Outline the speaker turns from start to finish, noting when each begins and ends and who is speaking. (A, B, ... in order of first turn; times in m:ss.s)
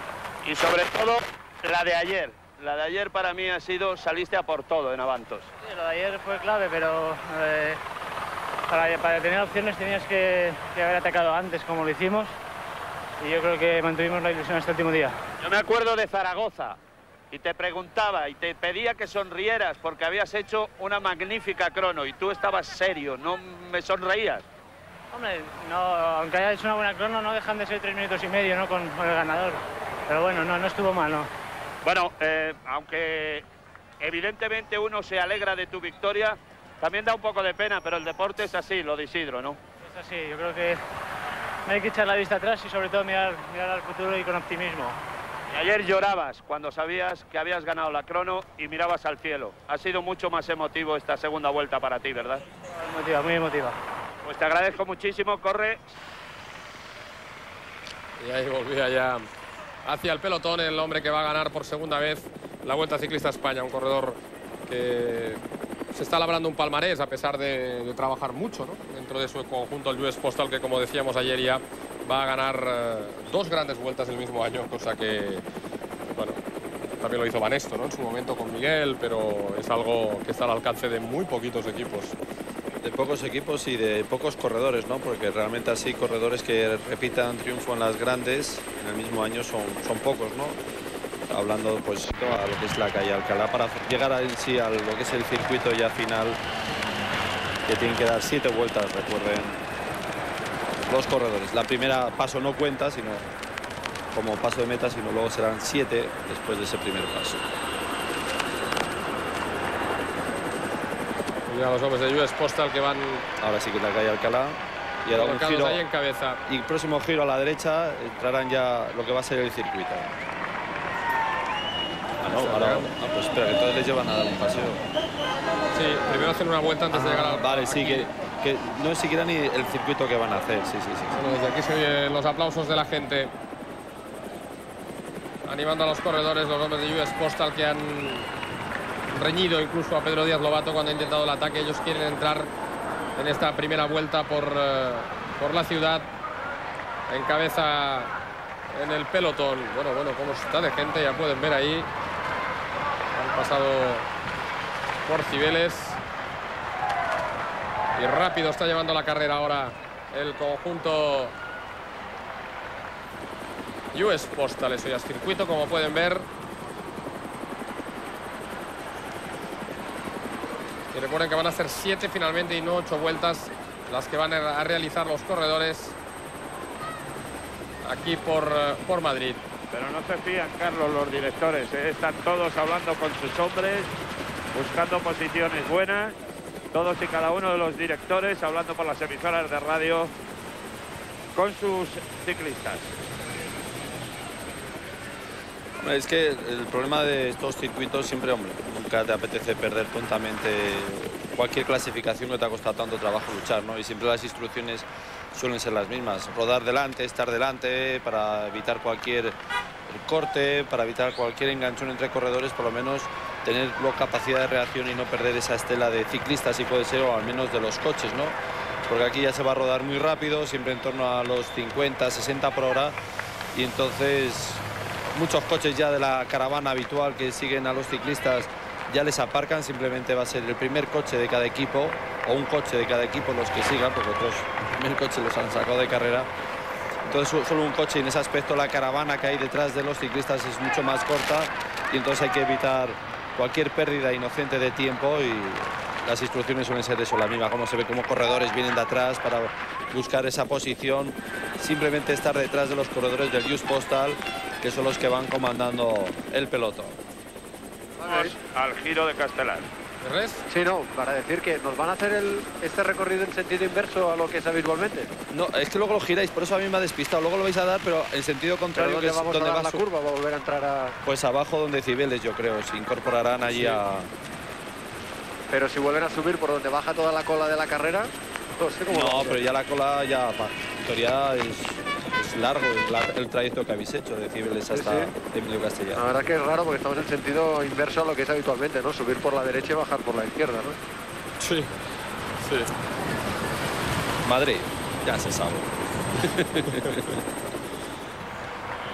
0:00.4-0:05.5 A
0:05.6-0:07.8 B
0:08.7-0:12.3 B
0:13.2-0:15.2 B
0:15.4-0:16.8 A
0:17.3-0:24.4 A
0:25.1-0:31.3 B
0:31.8-0:33.4 A
0:34.0-0:39.6 A
0:39.8-0:40.8 B
0:41.7-0:45.0 B
0:45.5-0:52.4 A
0:52.8-0:53.8 B
0:54.2-0:55.8 A
0:58.2-0:59.2 C
0:59.8-1:05.4 C
1:05.9-1:15.4 C
1:16.1-1:16.4 C
1:17.0-1:22.2 C
1:22.8-1:30.6 D
1:31.3-1:36.4 D
1:37.7-1:39.6 D
1:40.8-1:43.2 D
1:44.1-1:47.4 D
1:51.5-1:53.2 C
1:53.4-1:55.8 D
1:55.1-1:56.4 C
1:56.5-2:00.1 D
2:02.2-2:04.8 D
2:02.3-2:02.9 C
2:05.7-2:08.1 C
2:06.9-2:11.2 D
2:11.2-2:13.3 C
2:15.4-2:18.3 C
2:19.1-2:22.5 C
2:23.2-2:26.1 C
2:27.1-2:28.1 C
2:28.7-2:31.9 C
2:33.1-2:34.1 C
2:35.1-2:36.0 C
2:38.0-2:41.3 C
2:43.9-2:46.3 C
2:50.9-2:56.0 C
2:57.8-2:59.4 C
2:59.7-3:03.9 A
3:04.5-3:06.2 A
3:06.7-3:10.1 A
3:11.4-3:12.9 A
3:15.8-3:29.4 D
3:29.9-3:38.4 D
3:38.9-3:43.0 D
3:43.5-3:56.3 D
3:57.0-4:17.0 D
4:18.0-4:18.3 E
4:18.0-4:19.7 A
4:20.0-4:20.4 C
4:20.5-4:25.1 E
4:25.3-4:29.8 D
4:28.8-4:31.0 E
4:31.0-4:34.1 D
4:35.5-4:39.6 E
4:38.9-4:46.0 D
4:44.7-4:45.1 E
4:46.0-4:50.8 E
4:51.4-4:51.7 C
4:52.4-4:52.7 C
4:54.2-4:57.2 D